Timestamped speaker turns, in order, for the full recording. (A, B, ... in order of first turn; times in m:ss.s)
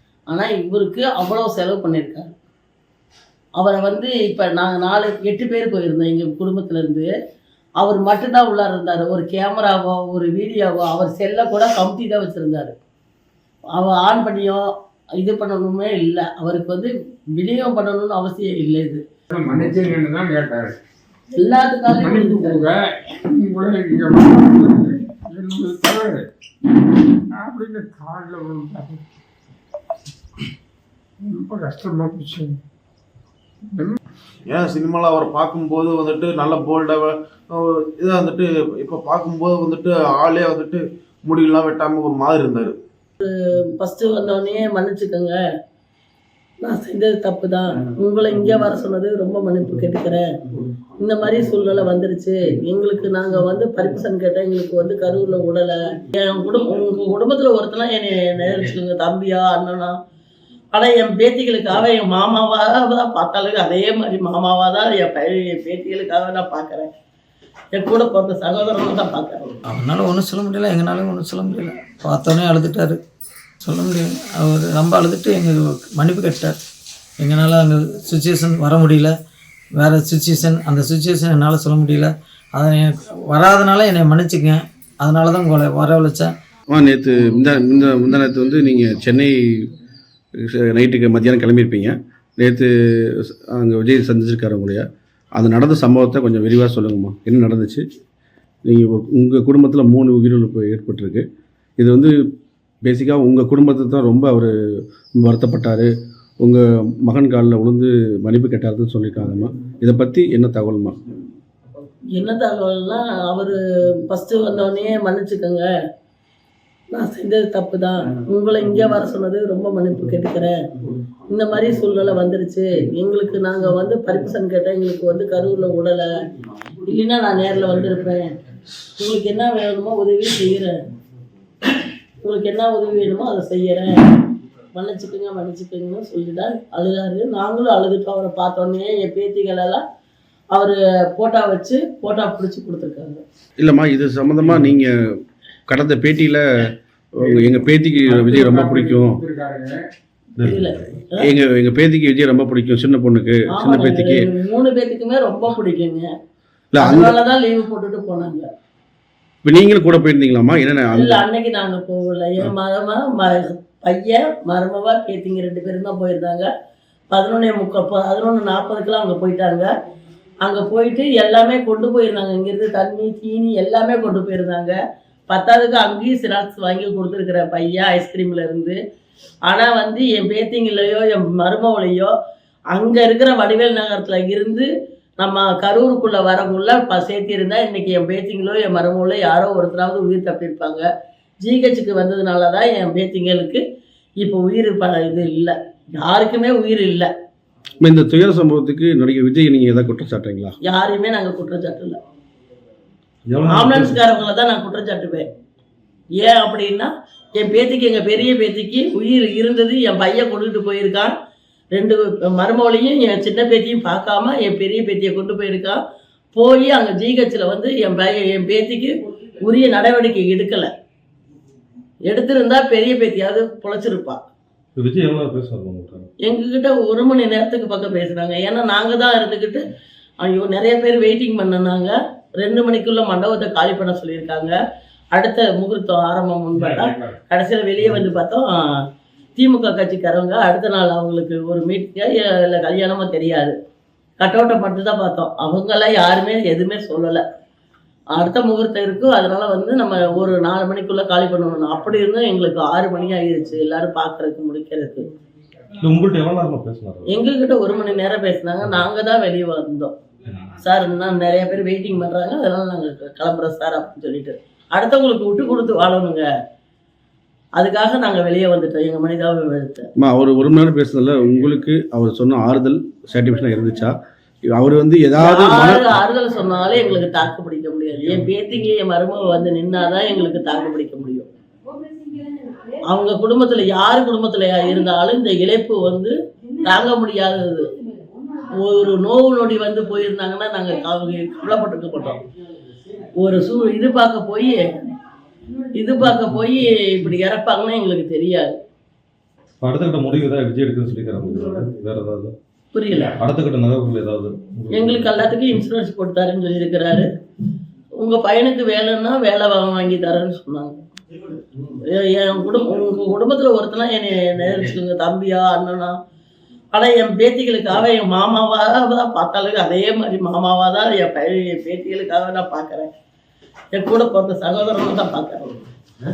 0:00.3-0:02.3 A
0:03.6-0:07.1 A
0:07.8-0:12.7 A
0:13.7-0:14.7 A
0:15.2-0:19.0 A
0:19.3-0:20.7 B
0:21.4-0:22.6 A
0:21.9-0:22.8 B
0:23.4-0:26.2 B
0:27.3-0:29.0 B
0:31.2-0:32.5 B
0:34.5-0:42.7 C
0:43.2-0:45.4 A
0:46.6-0:50.2 A
0:51.0-0:59.9 A
1:00.7-1:06.9 A
1:07.7-1:09.4 A
1:09.7-1:13.0 D
1:13.6-1:16.6 D
1:17.2-1:19.1 D
1:19.8-1:26.3 D
1:26.7-1:29.3 E
1:30.4-1:32.7 E
1:33.3-1:34.8 E
1:35.4-1:37.8 E
1:38.6-1:41.2 E
1:41.8-1:42.1 E
1:42.8-1:44.5 E
1:45.2-1:45.9 E
1:46.4-1:51.0 E
1:52.2-1:55.6 A
1:56.9-2:00.6 A
2:01.3-2:06.0 A
2:06.9-2:08.3 A
2:09.0-2:10.7 A
2:12.2-2:14.0 A
2:14.7-2:19.8 A
2:20.5-2:23.2 A
2:23.6-2:24.9 E
2:25.7-2:26.4 E
2:27.1-2:29.2 E
2:27.2-2:29.8 B
2:30.4-2:34.3 E
2:30.4-2:31.3 A
2:33.5-2:36.1 A
2:36.7-2:37.1 E
2:36.8-2:38.4 A
2:39.4-2:41.2 E
2:40.9-2:46.5 A
2:47.1-2:49.7 A
2:50.4-2:54.7 A
2:55.3-2:58.8 A
2:59.4-3:02.1 A
3:02.7-3:04.7 A
3:05.2-3:10.8 A
3:11.4-3:13.6 A
3:14.2-3:17.1 A
3:17.8-3:20.5 E
3:20.7-3:22.0 A
3:23.3-3:24.0 F
3:23.4-3:25.2 A
3:26.2-3:31.1 A
3:31.7-3:35.8 A
3:36.3-3:40.7 A
3:42.1-3:44.2 A
3:44.8-3:46.1 F
3:46.2-3:49.6 A
3:50.2-3:54.5 A
3:55.1-3:58.5 A
3:56.5-3:57.2 B
3:59.4-4:03.5 A
4:04.2-4:07.2 A
4:08.1-4:15.0 A
4:15.8-4:17.2 F
4:17.0-4:19.9 A
4:20.6-4:26.2 A
4:27.6-4:29.8 A
4:30.0-4:33.9 E
4:34.5-4:35.9 E
4:35.2-4:41.3 A
4:42.8-4:47.7 A
4:48.6-4:52.2 A
4:53.2-4:54.6 A
4:55.7-4:58.5 A
4:59.6-5:02.4 F
5:02.7-5:03.2 A
5:03.2-5:05.1 F
5:04.7-5:07.1 A
5:08.0-5:10.8 A
5:11.9-5:15.9 A
5:16.7-5:22.9 A
5:23.7-5:25.6 A